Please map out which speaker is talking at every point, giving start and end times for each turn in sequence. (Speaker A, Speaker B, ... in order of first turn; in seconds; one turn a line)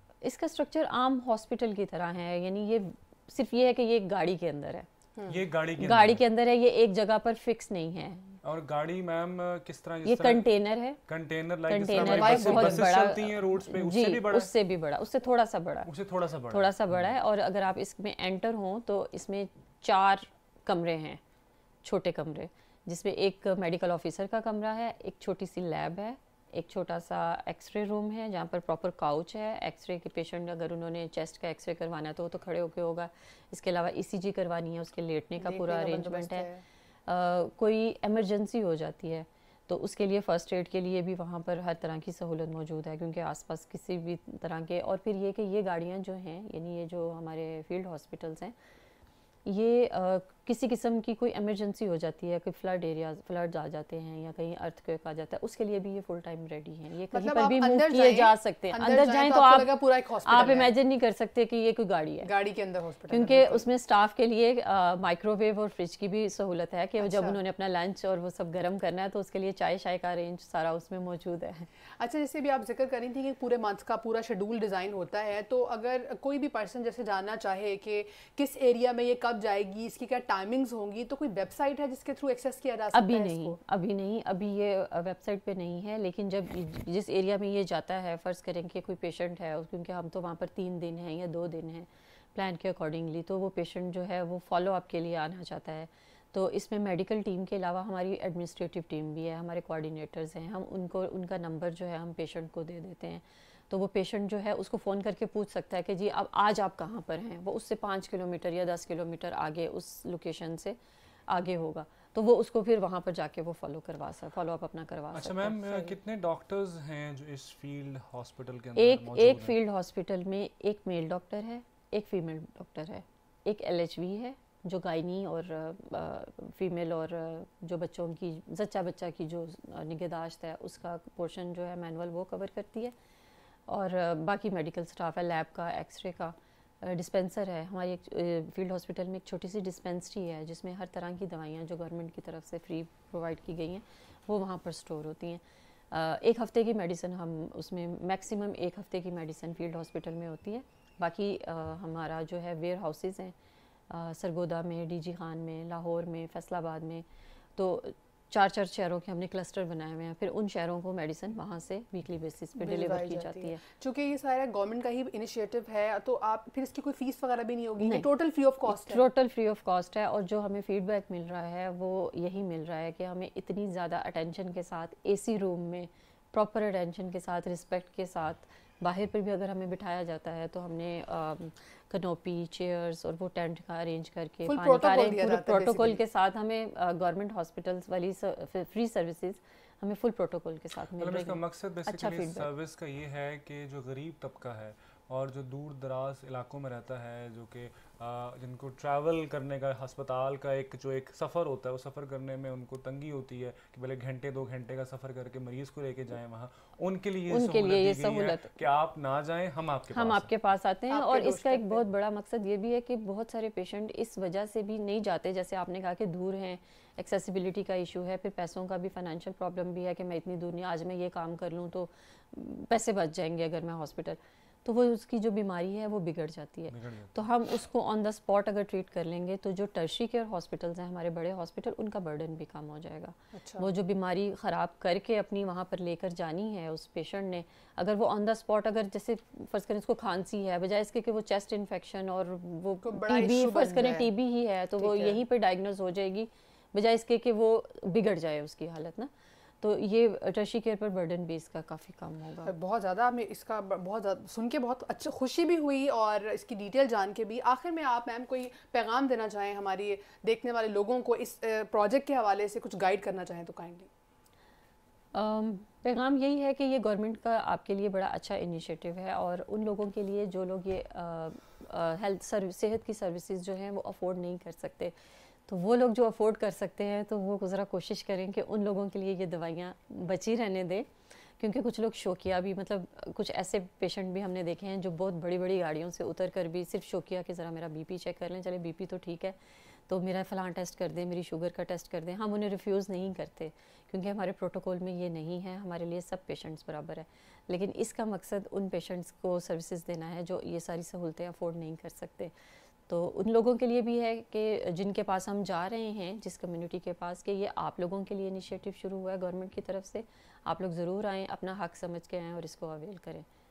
Speaker A: 0.2-4.9
Speaker B: 5.3-6.2
Speaker A: 5.8-8.4
Speaker B: 8.4-10.5
Speaker A: 10.0-11.0
Speaker B: 11.1-14.5
Speaker A: 11.7-15.9
Speaker C: 11.9-13.0
Speaker B: 15.9-17.1
Speaker A: 16.5-21.2
Speaker A: 21.8-36.5
Speaker C: 35.4-36.6
Speaker A: 37.1-48.5
Speaker A: 49.4-62.3
Speaker C: 57.1-60.7
Speaker C: 62.2-63.6
Speaker A: 63.1-71.7
Speaker C: 67.0-67.4
Speaker C: 72.0-83.6
Speaker A: 82.9-110.8
Speaker A: 111.3-115.9
Speaker B: 115.1-119.5
Speaker A: 118.8-132.9
Speaker A: 133.7-153.3
Speaker A: 153.9-157.0
Speaker A: 157.6-163.6
Speaker C: 162.6-169.0
Speaker A: 167.8-168.1
Speaker A: 168.7-192.5
Speaker C: 184.4-186.0
Speaker B: 190.9-210.3
Speaker A: 207.3-208.5
Speaker A: 209.9-252.5
Speaker C: 210.9-211.8
Speaker B: 226.7-227.2
Speaker C: 233.3-233.7
Speaker C: 242.8-244.1
Speaker C: 244.8-245.2
Speaker C: 252.4-263.9
Speaker A: 265.1-274.9
Speaker A: 275.5-289.4
Speaker A: 289.9-302.3
Speaker A: 302.9-313.2